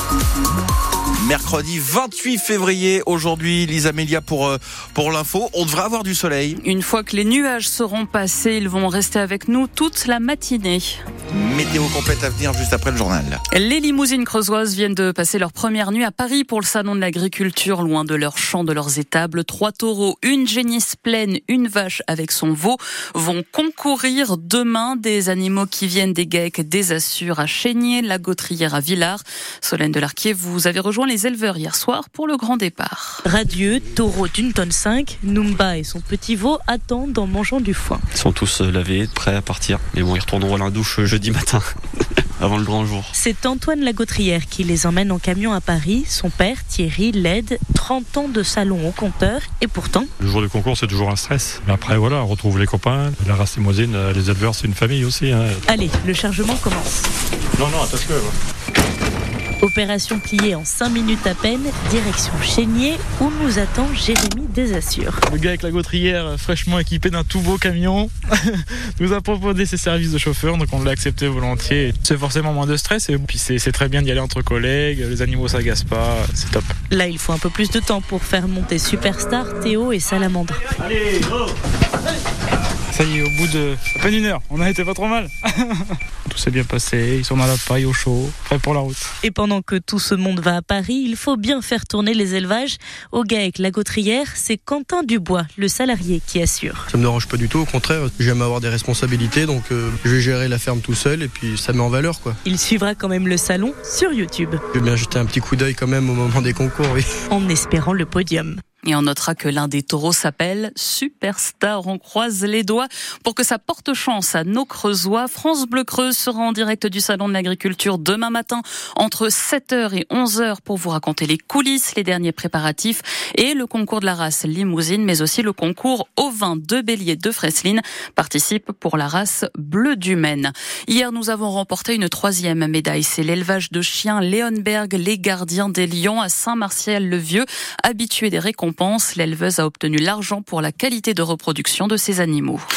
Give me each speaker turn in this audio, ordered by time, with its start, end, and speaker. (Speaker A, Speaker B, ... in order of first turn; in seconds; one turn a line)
Speaker A: 1.2-6.6
Speaker B: 6.6-11.0
Speaker A: 11.3-13.4
Speaker B: 13.5-33.2
Speaker C: 33.2-38.0
Speaker D: 38.1-41.7
Speaker D: 42.4-43.1
Speaker C: 43.1-50.1
Speaker E: 50.2-55.6
Speaker C: 55.7-57.1
Speaker E: 57.6-58.4
Speaker C: 59.6-65.2
Speaker F: 65.3-76.8
Speaker C: 76.9-80.6
Speaker F: 82.9-89.1
Speaker C: 89.2-96.8
Speaker G: 96.9-102.4
Speaker C: 102.5-104.6
Speaker G: 104.7-107.1
Speaker C: 107.3-108.6
Speaker B: 108.8-142.7